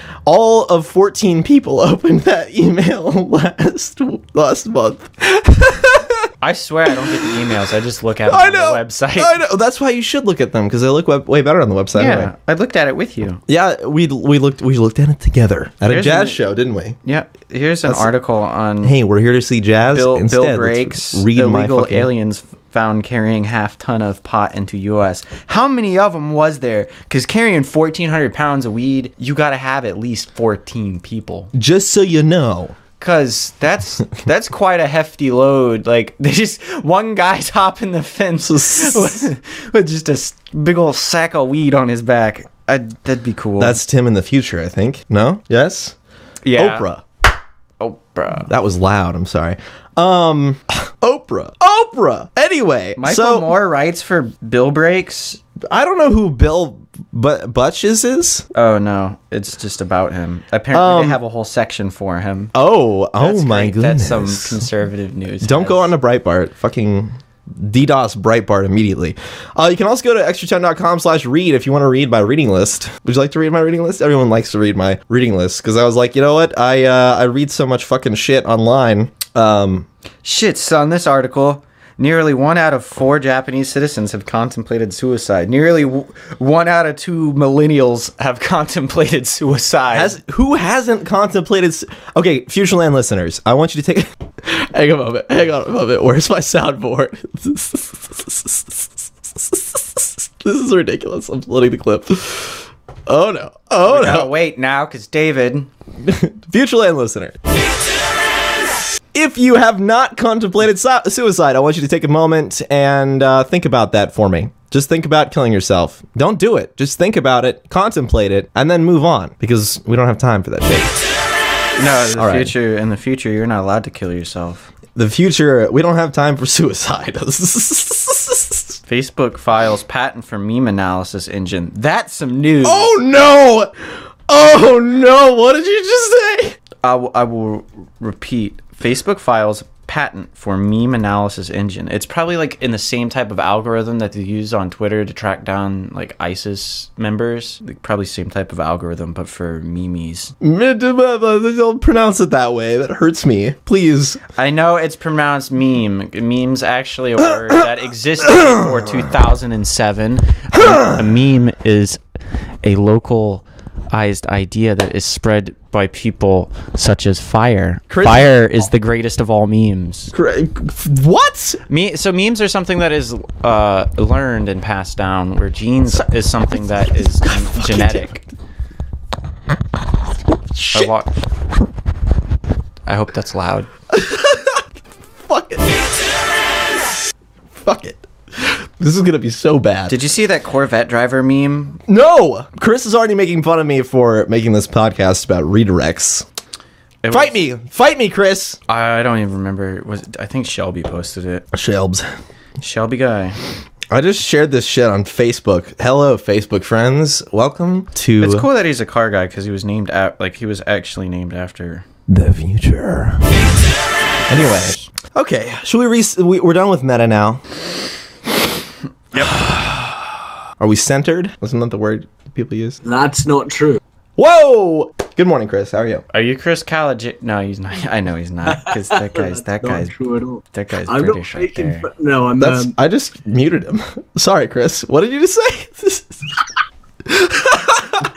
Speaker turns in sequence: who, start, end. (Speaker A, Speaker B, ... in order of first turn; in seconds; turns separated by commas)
Speaker A: 0.2-6.3, Speaker B: 6.4-9.4, Speaker A: 6.9-7.3, Speaker A: 8.3-12.3, Speaker B: 11.9-13.4, Speaker A: 13.5-17.0, Speaker B: 15.8-16.4, Speaker B: 17.0-18.9, Speaker A: 17.9-18.1, Speaker A: 18.8-22.1, Speaker B: 19.9-31.5, Speaker A: 31.5-32.8, Speaker B: 33.0-43.8, Speaker A: 38.4-39.3, Speaker A: 43.6-46.0, Speaker B: 46.4-46.9, Speaker A: 46.5-47.0, Speaker B: 47.8-48.5, Speaker A: 48.5-53.5, Speaker B: 53.0-55.4, Speaker A: 55.6-58.4, Speaker B: 58.5-62.5, Speaker A: 60.7-61.2, Speaker A: 62.5-64.6, Speaker B: 63.2-65.9, Speaker A: 65.4-79.9, Speaker B: 80.2-90.2, Speaker A: 89.9-104.3, Speaker B: 103.8-105.7, Speaker A: 106.0-107.4, Speaker A: 109.1-121.0, Speaker B: 121.8-124.7, Speaker A: 122.2-122.5, Speaker A: 124.9-128.8, Speaker B: 128.9-132.9, Speaker A: 132.6-136.6, Speaker B: 136.8-150.3, Speaker A: 150.4-154.2, Speaker B: 154.3-162.0, Speaker A: 158.2-159.1, Speaker A: 160.5-161.0, Speaker B: 162.6-170.1, Speaker A: 167.9-168.4, Speaker A: 170.1-171.6, Speaker B: 171.7-178.2, Speaker A: 176.8-178.2, Speaker A: 180.5-180.9, Speaker B: 180.7-181.2, Speaker B: 182.8-183.7, Speaker A: 183.9-184.6, Speaker A: 185.2-185.7, Speaker A: 187.5-190.0, Speaker B: 189.9-191.8, Speaker A: 191.9-196.2, Speaker B: 197.0-197.4, Speaker A: 197.1-198.6, Speaker B: 198.7-201.4, Speaker A: 201.5-202.1, Speaker B: 202.6-203.4, Speaker A: 203.9-208.5, Speaker B: 208.2-211.8, Speaker A: 212.1-213.6, Speaker B: 214.3-214.8, Speaker A: 214.3-217.4, Speaker B: 219.1-219.5, Speaker A: 219.2-219.6, Speaker A: 220.6-222.8, Speaker C: 222.8-223.8, Speaker A: 224.2-226.0, Speaker B: 226.1-229.9, Speaker C: 228.5-232.7, Speaker B: 230.5-231.9, Speaker A: 232.4-236.2, Speaker A: 237.0-238.1